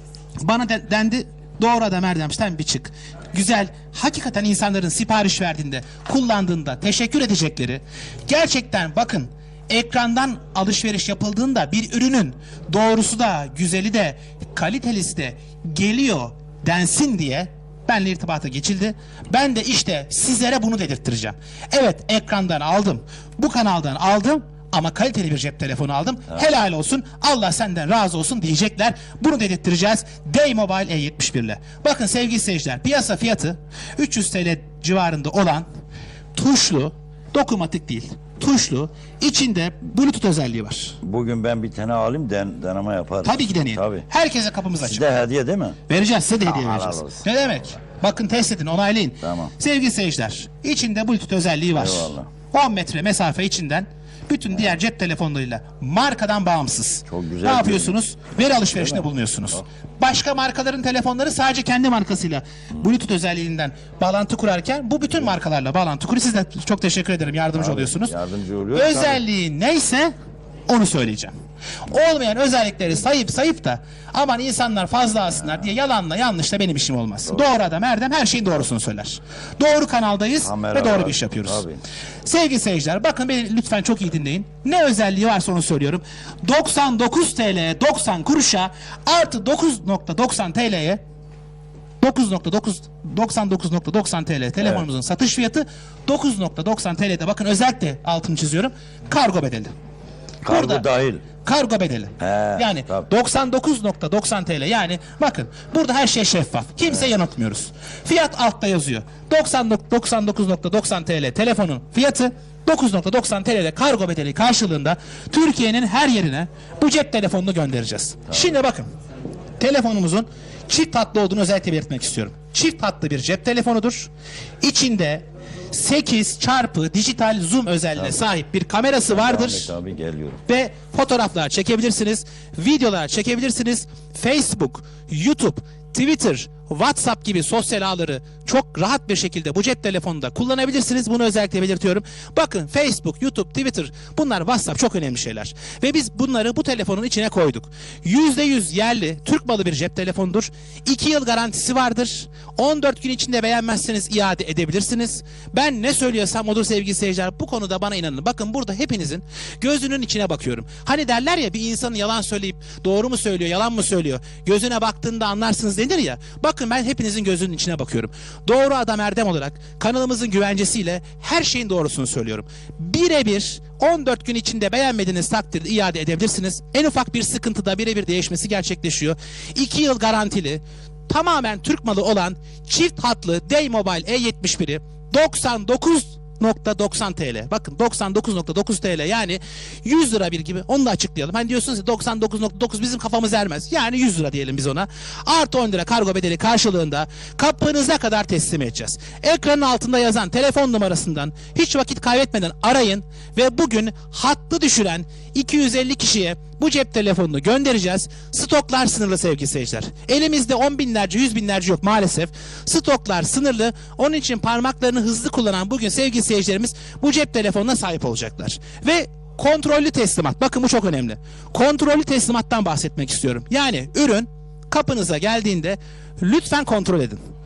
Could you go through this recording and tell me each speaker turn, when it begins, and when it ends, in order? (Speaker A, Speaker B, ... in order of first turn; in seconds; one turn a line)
Speaker A: 0.4-35.6
Speaker A: 36.3-41.0
Speaker B: 41.0-44.0
Speaker A: 43.2-45.2
Speaker B: 44.8-45.8
Speaker A: 45.9-68.1
Speaker B: 46.5-47.2
Speaker B: 49.2-49.5
Speaker B: 51.8-52.3
Speaker B: 57.1-57.9
Speaker B: 58.8-59.0
Speaker B: 67.5-69.2
Speaker A: 68.7-70.1
Speaker A: 70.7-71.3
Speaker A: 71.9-81.6
Speaker B: 80.4-81.8
Speaker A: 82.2-91.0
Speaker A: 92.0-99.7
Speaker B: 100.4-101.2
Speaker A: 100.5-100.8
Speaker A: 101.4-118.9
Speaker B: 102.2-103.0
Speaker A: 119.6-124.1
Speaker A: 124.6-129.7
Speaker B: 129.1-130.4
Speaker A: 130.5-227.2